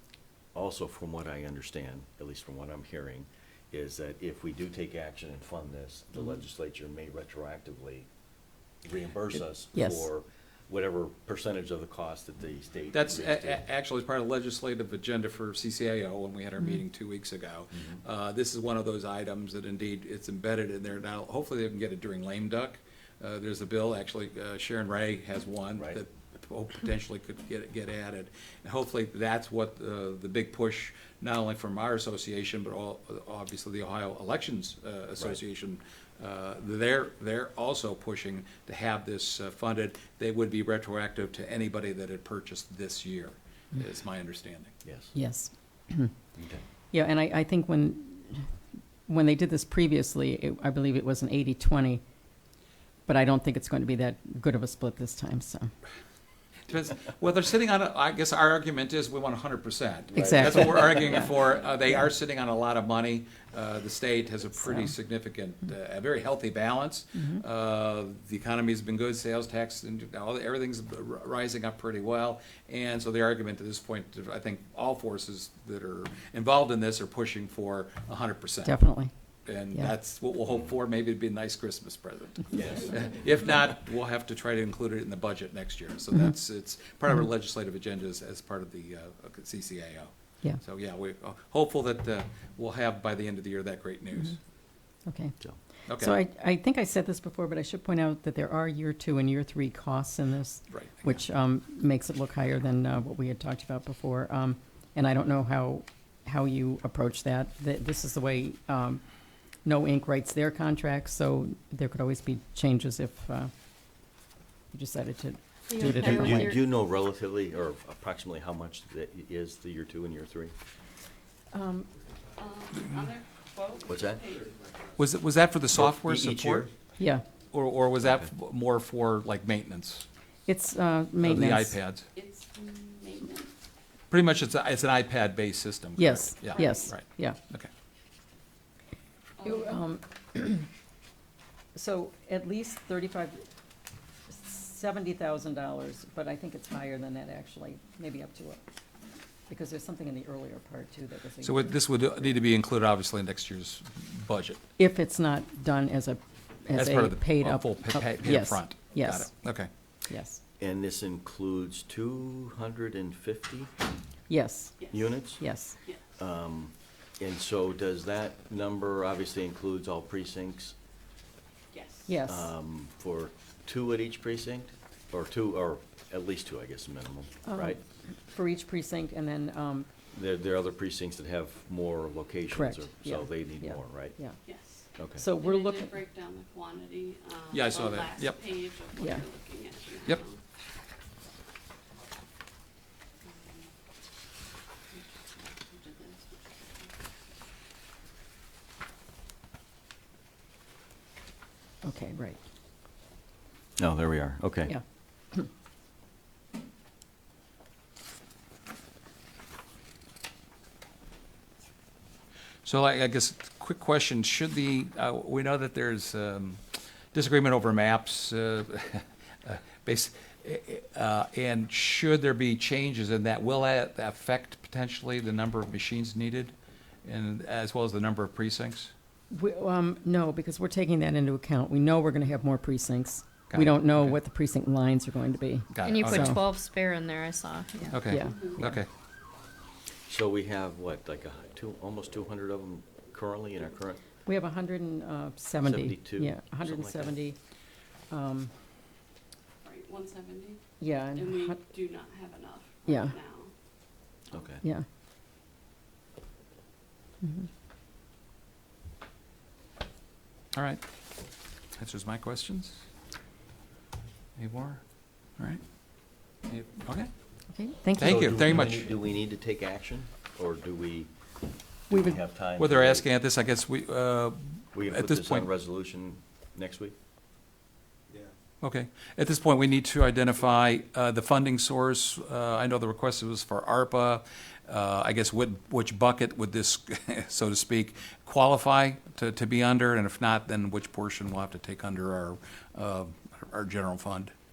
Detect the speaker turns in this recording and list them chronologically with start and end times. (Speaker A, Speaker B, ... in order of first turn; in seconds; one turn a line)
Speaker A: 0.5-8.1
Speaker A: 8.8-13.7
Speaker B: 9.7-10.1
Speaker C: 12.9-44.7
Speaker A: 17.7-18.0
Speaker A: 44.9-45.1
Speaker B: 45.1-46.1
Speaker A: 46.4-46.6
Speaker B: 46.9-48.5
Speaker B: 49.1-52.0
Speaker B: 53.1-55.7
Speaker C: 56.7-78.9
Speaker A: 60.1-61.5
Speaker B: 60.2-61.3
Speaker B: 67.2-67.4
Speaker B: 78.6-79.1
Speaker C: 79.5-94.4
Speaker A: 82.5-83.0
Speaker B: 95.1-95.3
Speaker C: 95.9-96.2
Speaker B: 96.0-109.0
Speaker C: 100.7-101.2
Speaker B: 109.6-113.5
Speaker B: 114.7-116.2
Speaker D: 115.7-116.6
Speaker A: 115.8-120.5
Speaker B: 121.5-121.9
Speaker E: 122.4-124.7
Speaker A: 123.9-124.2
Speaker C: 125.0-126.7
Speaker A: 125.7-126.7
Speaker B: 127.0-127.2
Speaker C: 127.4-130.1
Speaker A: 128.0-128.3
Speaker B: 130.5-131.8
Speaker C: 131.2-132.1
Speaker E: 132.1-133.5
Speaker C: 134.1-137.7
Speaker B: 136.0-137.4
Speaker E: 136.4-136.9
Speaker E: 139.4-139.8
Speaker B: 139.4-140.7
Speaker B: 141.8-143.4
Speaker B: 144.3-148.6
Speaker B: 149.5-152.3
Speaker C: 151.4-154.6
Speaker B: 154.8-159.4
Speaker C: 156.7-159.7
Speaker B: 160.1-160.4
Speaker A: 160.6-163.7
Speaker B: 164.3-164.8
Speaker E: 164.8-165.3
Speaker A: 164.9-165.4
Speaker B: 165.4-165.8
Speaker A: 166.2-170.8
Speaker E: 171.7-172.2
Speaker B: 172.1-172.5
Speaker A: 172.2-177.8
Speaker B: 177.5-179.9
Speaker A: 180.1-184.2
Speaker B: 182.5-184.4
Speaker E: 184.4-190.4
Speaker A: 184.9-185.2
Speaker B: 185.2-186.0
Speaker C: 187.5-188.4
Speaker B: 189.0-189.2
Speaker E: 193.2-193.7
Speaker E: 194.9-196.9
Speaker B: 201.8-202.4
Speaker A: 203.8-204.8
Speaker C: 212.6-228.9
Speaker B: 229.3-236.4
Speaker C: 233.5-234.2
Speaker C: 235.7-236.4
Speaker D: 235.8-238.0
Speaker C: 237.9-238.9
Speaker B: 238.0-238.5
Speaker E: 238.2-238.7
Speaker A: 240.1-244.0
Speaker B: 244.2-247.4
Speaker A: 245.6-247.2
Speaker B: 248.1-248.5
Speaker E: 249.6-253.5
Speaker B: 250.8-251.6
Speaker B: 252.9-253.2
Speaker A: 254.3-254.6
Speaker C: 260.5-260.8
Speaker C: 261.8-262.9
Speaker C: 264.4-264.8
Speaker C: 266.4-267.1
Speaker B: 267.5-268.2
Speaker C: 268.0-268.9
Speaker A: 268.0-271.1
Speaker A: 271.9-273.1
Speaker B: 271.9-272.2
Speaker C: 272.6-275.5
Speaker A: 274.7-277.0
Speaker C: 278.6-294.3